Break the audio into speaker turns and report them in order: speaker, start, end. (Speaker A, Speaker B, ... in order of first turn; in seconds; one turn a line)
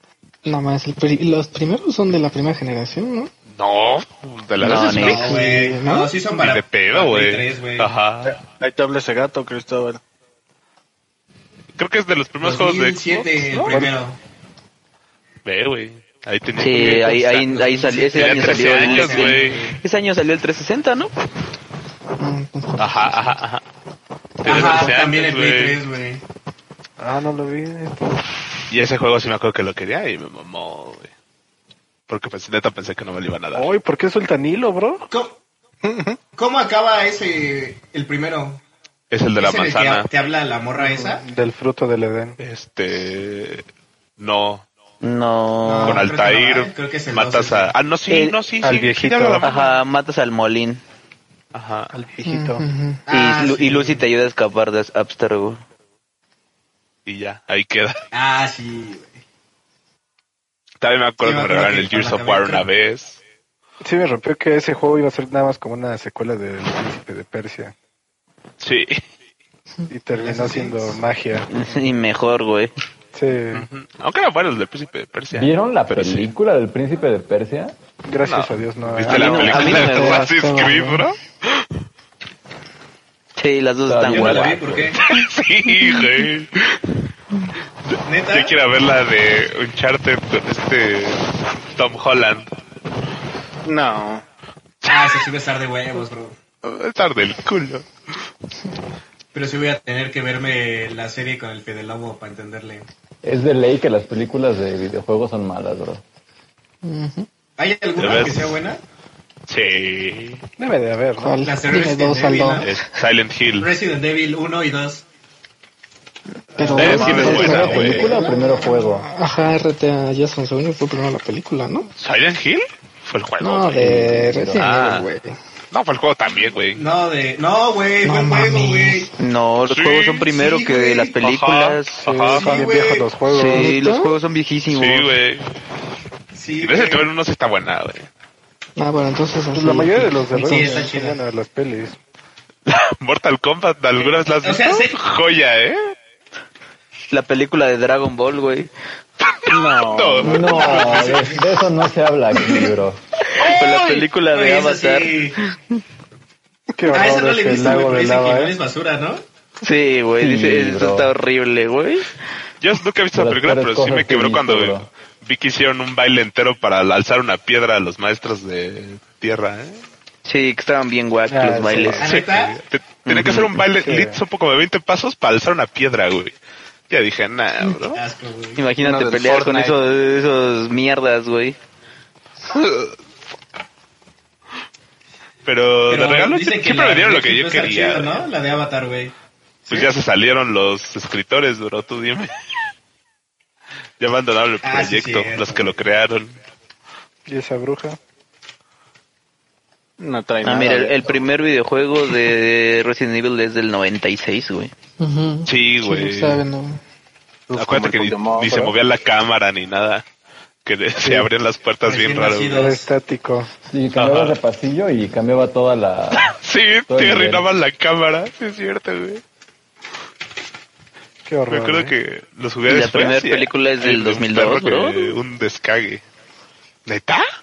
Speaker A: 0.5-3.3
Speaker B: 3.5-5.3
Speaker C: 4.6-5.3
Speaker D: 4.8-7.9
Speaker A: 5.0-6.2
Speaker B: 6.3-8.4
Speaker E: 8.2-10.0
Speaker B: 11.8-13.9
Speaker D: 12.4-14.2
Speaker B: 15.4-19.7
Speaker C: 16.6-21.1
Speaker D: 17.6-19.8
Speaker A: 22.2-23.4
Speaker B: 22.8-23.6
Speaker B: 24.4-25.8
Speaker D: 24.4-26.2
Speaker F: 27.0-28.2
Speaker B: 28.7-31.1
Speaker B: 32.1-33.7
Speaker F: 33.5-35.1
Speaker D: 35.1-35.4
Speaker E: 35.8-36.2
Speaker D: 36.4-38.6
Speaker B: 39.1-40.1
Speaker D: 39.4-41.2
Speaker F: 40.8-42.4
Speaker B: 42.4-43.7
Speaker B: 44.2-44.6
Speaker C: 45.0-46.1
Speaker D: 45.6-47.7
Speaker B: 45.9-49.5
Speaker C: 48.1-48.4
Speaker F: 48.6-49.5
Speaker C: 49.4-50.8
Speaker B: 51.5-51.9
Speaker F: 51.9-52.6
Speaker A: 52.2-53.0
Speaker D: 53.1-54.1
Speaker C: 53.1-55.6
Speaker B: 57.1-58.0
Speaker D: 58.1-59.2
Speaker B: 60.8-63.2
Speaker D: 61.2-62.7
Speaker F: 63.8-67.7
Speaker B: 68.6-69.0
Speaker F: 69.9-71.8
Speaker D: 70.1-71.0
Speaker C: 71.5-72.7
Speaker F: 73.1-73.7
Speaker B: 73.5-76.3
Speaker G: 75.3-77.7
Speaker F: 78.1-79.9
Speaker B: 78.2-81.7
Speaker C: 79.0-80.3
Speaker A: 79.4-81.1
Speaker C: 83.4-84.8
Speaker G: 83.9-85.0
Speaker D: 84.0-85.0
Speaker B: 85.0-87.0
Speaker B: 87.9-92.5
Speaker D: 88.0-88.5
Speaker E: 93.7-94.2
Speaker B: 94.8-95.2
Speaker D: 94.9-96.4
Speaker B: 96.6-98.2
Speaker D: 99.3-102.9
Speaker G: 103.2-106.0
Speaker A: 106.8-107.3
Speaker D: 107.6-108.8
Speaker B: 108.0-108.6
Speaker B: 109.5-110.4
Speaker F: 110.6-111.4
Speaker A: 111.2-112.8
Speaker D: 111.4-112.7
Speaker B: 112.6-113.7
Speaker D: 113.6-115.0
Speaker A: 116.5-121.9
Speaker F: 116.6-117.5
Speaker B: 116.7-118.2
Speaker E: 116.8-117.5
Speaker G: 117.0-119.1
Speaker B: 122.0-125.1
Speaker A: 123.4-125.4
Speaker G: 123.8-124.6
Speaker B: 125.7-126.8
Speaker D: 126.8-129.1
Speaker A: 128.0-129.1
Speaker C: 129.2-132.1
Speaker B: 129.7-130.3
Speaker D: 130.2-131.2
Speaker B: 131.2-132.7
Speaker F: 132.0-133.8
Speaker D: 132.3-133.1
Speaker C: 133.3-135.1
Speaker A: 133.4-134.1
Speaker B: 134.7-135.5
Speaker D: 136.3-137.1
Speaker B: 136.6-138.1
Speaker A: 138.8-140.9
Speaker F: 139.5-142.0
Speaker D: 140.4-141.2
Speaker B: 142.7-145.9
Speaker D: 144.0-145.0
Speaker C: 147.1-148.7
Speaker B: 149.2-151.1
Speaker E: 149.5-150.8
Speaker G: 150.2-153.0
Speaker D: 150.4-151.5
Speaker C: 153.3-155.8
Speaker B: 153.6-154.0
Speaker D: 154.2-155.4
Speaker F: 156.8-158.5
Speaker D: 156.9-159.2
Speaker C: 159.6-162.1
Speaker G: 160.2-161.1
Speaker B: 162.6-169.8
Speaker G: 163.1-164.9
Speaker C: 170.3-172.1
Speaker F: 171.3-172.2
Speaker D: 172.0-172.6
Speaker B: 172.0-176.3
Speaker C: 173.1-173.5
Speaker F: 173.6-174.2
Speaker B: 176.9-178.0
Speaker D: 177.9-178.7
Speaker C: 178.6-181.6
Speaker E: 178.8-179.8
Speaker B: 182.5-183.0
Speaker B: 185.4-188.2
Speaker D: 185.9-189.1
Speaker B: 189.7-192.3
Speaker B: 194.0-196.4
Speaker D: 194.6-195.7
Speaker F: 197.3-198.0
Speaker E: 200.0-201.2
Speaker C: 200.4-204.7
Speaker A: 205.0-206.8
Speaker B: 205.5-206.4
Speaker E: 207.5-208.8
Speaker B: 207.6-210.1
Speaker B: 210.7-212.6
Speaker F: 211.0-211.3
Speaker D: 211.8-212.9
Speaker F: 212.5-213.5
Speaker G: 213.7-216.4
Speaker B: 214.0-214.4
Speaker B: 216.2-219.2
Speaker G: 216.9-217.5
Speaker F: 221.3-222.0
Speaker B: 221.5-226.0
Speaker C: 222.7-225.2
Speaker B: 226.9-227.3